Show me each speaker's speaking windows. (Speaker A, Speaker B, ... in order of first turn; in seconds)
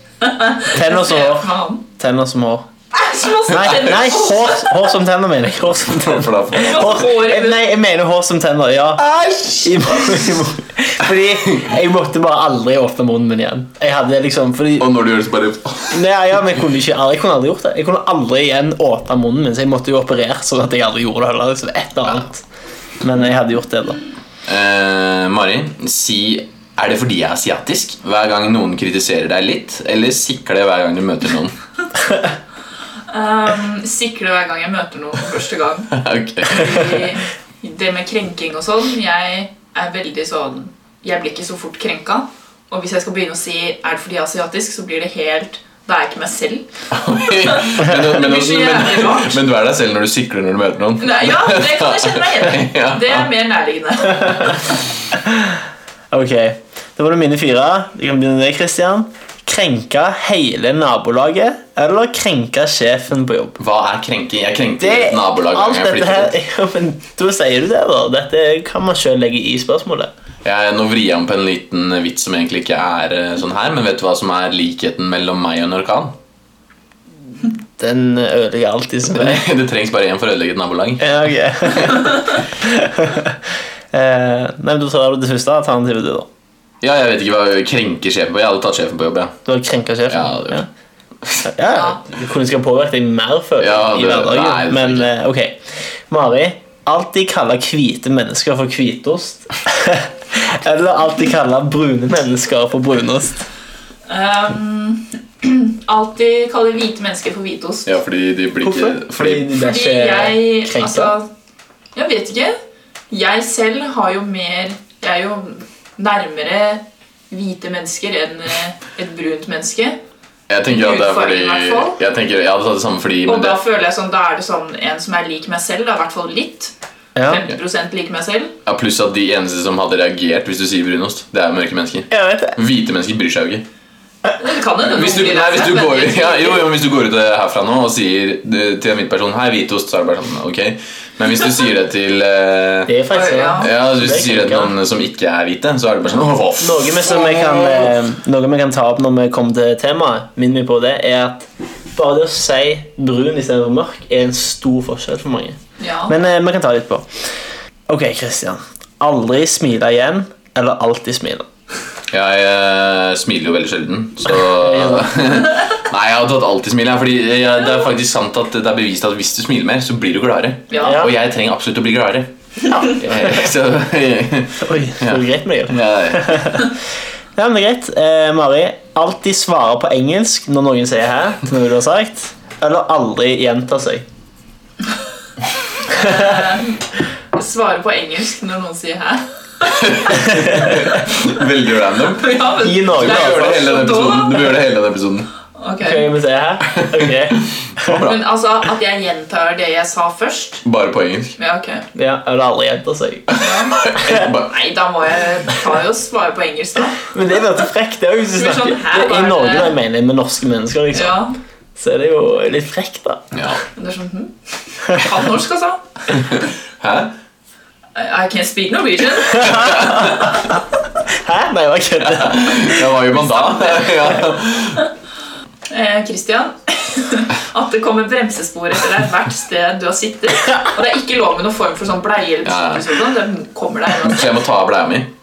Speaker A: 0.2-1.8, 2.9-4.9, 6.5-7.6, 33.1-46.7, 47.3-49.4, 51.0-54.8, 91.7-92.0, 104.1-107.9, 109.6-111.3, 111.9-112.5, 113.1-120.0, 120.7-122.0, 123.2-126.7, 127.2-128.5, 134.4-136.7, 143.1-143.7, 155.8-156.1, 170.7-171.0, 185.8-186.8, 187.3-190.2, 192.1-194.5, 195.6-196.1, 197.9-200.6, 201.4-201.8, 203.4-207.1, 208.3-209.8, 210.9-211.3, 213.7-215.8, 217.9-220.3, 223.4-223.9, 225.7-234.3
Speaker B: 0.7-2.7, 3.5-14.9, 15.9-22.4, 23.0-24.0, 55.1-63.6, 64.8-70.1, 77.8-79.4, 81.0-86.3, 89.4-90.7, 91.4-103.5, 108.6-111.1, 127.2-127.5, 132.1-132.6, 142.8-144.7, 146.5-161.5, 164.3-165.3, 170.8-171.1, 174.6-176.8, 177.3-184.1, 185.9-186.3, 190.3-190.8, 192.6-193.7, 195.8-198.0, 201.9-203.3, 204.0-204.2, 207.0-211.2, 211.8-213.3, 219.3-223.0
Speaker C: 5.9-7.0, 9.0-10.3, 14.8-16.0, 24.5-31.6, 35.9-37.0, 46.9-53.3, 63.6-66.3, 70.4-76.2, 79.1-82.1, 86.8-89.4, 90.1-90.6, 93.6-95.1, 107.8-109.5, 120.5-123.6, 128.6-133.7, 134.8-142.9, 143.6-147.9, 162.1-176.4, 189.6-192.4, 192.9-195.3, 196.7-198.2, 200.6-201.3, 203.3-204.5, 213.3-213.6, 216.1-217.1, 219.5-220.1, 222.0-224.8, 232.4-232.8, 234.0-235.1